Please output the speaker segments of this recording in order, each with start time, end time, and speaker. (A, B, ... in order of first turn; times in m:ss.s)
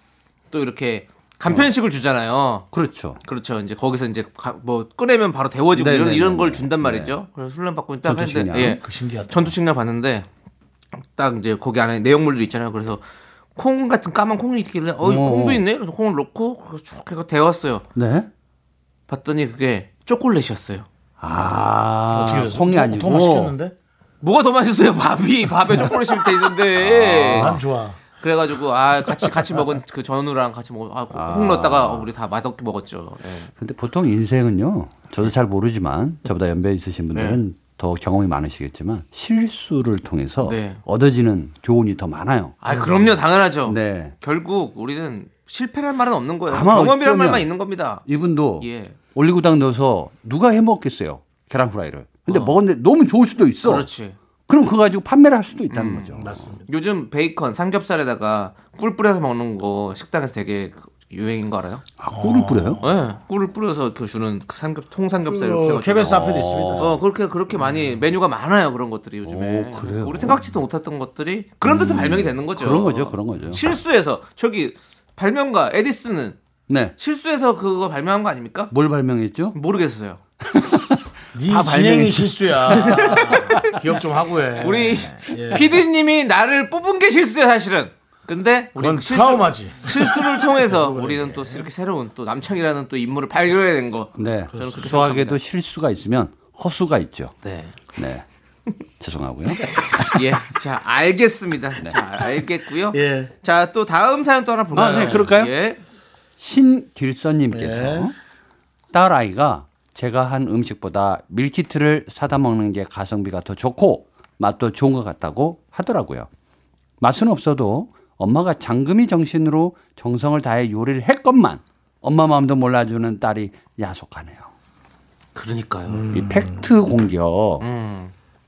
0:00.5-0:02.7 A
0:02.7-0:03.2 B
0:03.2-0:10.3 A
0:05.8-0:07.1 B
0:08.0-0:08.8 B
0:08.6-0:09.5 C
0:11.0-0:13.0 A
0:13.6-0:17.8 A
0:15.0-0:15.6 B
0:18.0-0:18.3 B
0:19.1-0:20.9 A
0:21.2-0:23.5 B
0:22.1-0:23.7 C
0:24.2-0:27.6 A
0:26.7-0:27.6 B
0:27.3-0:28.0 C
0:28.2-0:33.5 A
0:31.1-0:32.1 B
0:33.6-0:43.0 B
0:37.1-0:37.4 A
0:40.4-0:40.8 A
0:42.6-0:48.0 A
0:43.6-0:44.1 B
0:46.5-0:47.5 B
0:48.0-0:53.9 B
0:48.6-0:49.0 A
0:52.3-0:52.6 A
0:53.6-0:54.2 A
0:54.5-0:56.5 B
0:55.7-1:01.8 A
0:56.1-0:56.7 C
1:02.0-1:02.8 B
1:02.1-1:02.8 C
1:02.8-1:16.4 A
1:05.2-1:07.0 C
1:05.9-1:06.9 B
1:09.2-1:10.5 B
1:11.6-1:13.7 B
1:16.7-1:16.9 B
1:17.0-1:18.7 A
1:18.7-1:19.6 B
1:19.5-1:20.2 A
1:20.5-1:21.0 B
1:21.3-1:25.8 C
1:21.5-1:23.8 A
1:24.6-1:35.4 A
1:28.8-1:31.6 C
1:34.2-1:37.3 B
1:37.4-1:37.8 A
1:37.9-1:38.2 B
1:39.0-1:40.2 B
1:40.1-1:45.8 A
1:42.9-1:43.3 C
1:44.7-1:45.5 B
1:44.9-1:45.2 C
1:46.4-1:48.1 B
1:47.5-1:48.1 C
1:48.9-1:56.3 B
1:57.0-2:04.5 B
2:05.3-2:06.1 A
2:05.9-2:06.7 C
2:06.1-2:07.6 B
2:07.6-2:08.1 A